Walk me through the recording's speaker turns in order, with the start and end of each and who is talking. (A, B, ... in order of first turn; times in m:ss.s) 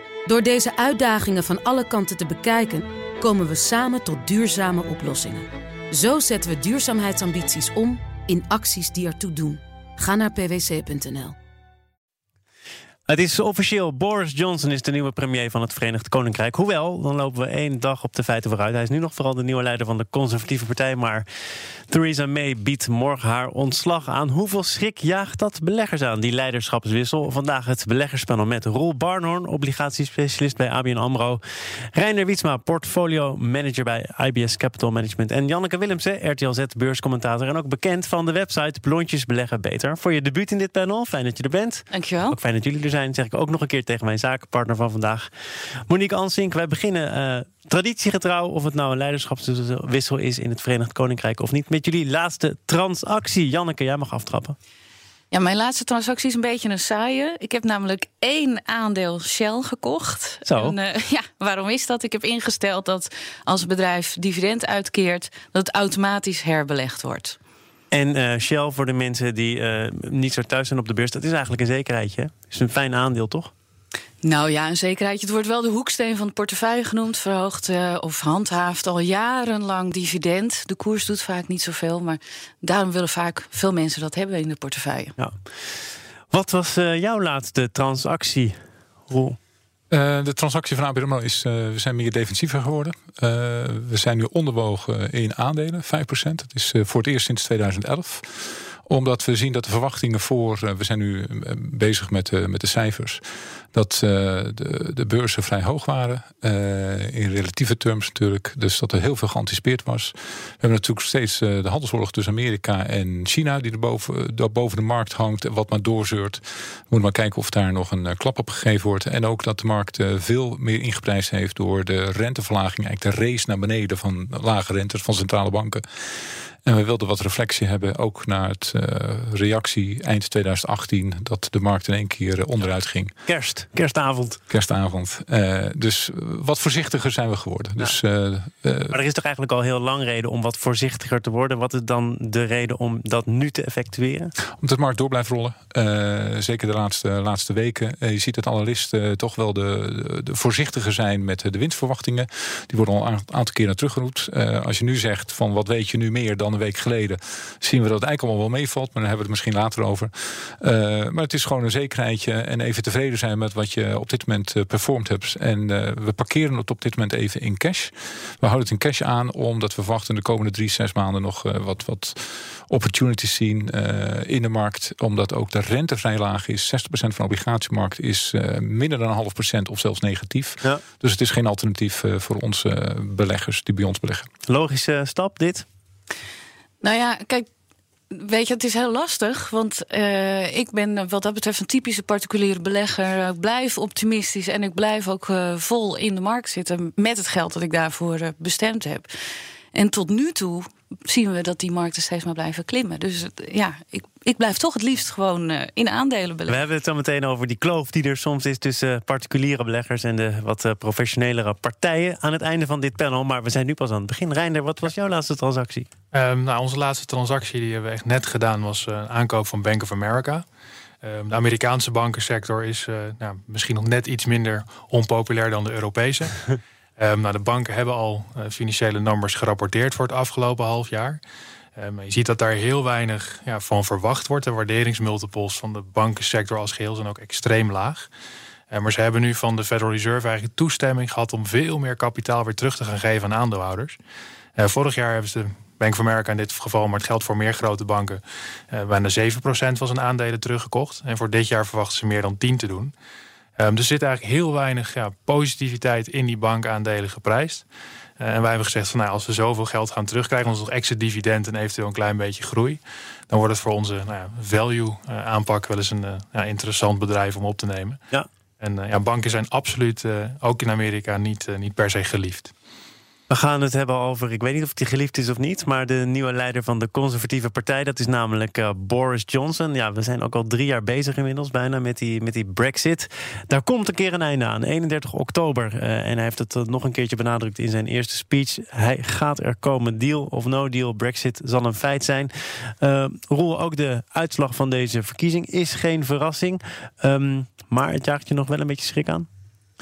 0:00.2-0:11.4 A
0:13.1-0:21.2 B
0:21.9-0:31.4 B
0:31.9-0:45.3 B
0:41.9-0:42.4 C
0:45.9-0:54.6 B
0:55.3-1:07.4 C
1:00.4-1:00.8 B
1:07.9-1:13.5 B
1:14.2-1:25.1 C
1:25.2-1:25.7 B
1:26.3-1:29.4 B
1:29.9-1:43.2 D
1:43.7-2:05.8 D
2:06.6-2:13.2 D
2:13.2-2:14.4 B
2:14.5-2:19.0 D
2:18.9-2:24.3 B
2:24.6-3:04.3 D
3:04.5-3:05.6 B
3:06.8-3:07.5 C
3:08.1-3:19.1 C
3:19.7-3:26.6 C
3:26.5-3:35.9 B
3:36.1-3:40.4 E
3:41.0-3:46.4 E
3:47.0-3:51.2 E
3:51.8-3:58.1 E
3:58.7-4:04.0 E
4:04.6-4:12.9 E
4:13.6-4:17.6 E
4:18.2-4:28.0 E
4:28.6-4:32.5 E
4:33.3-4:59.3 B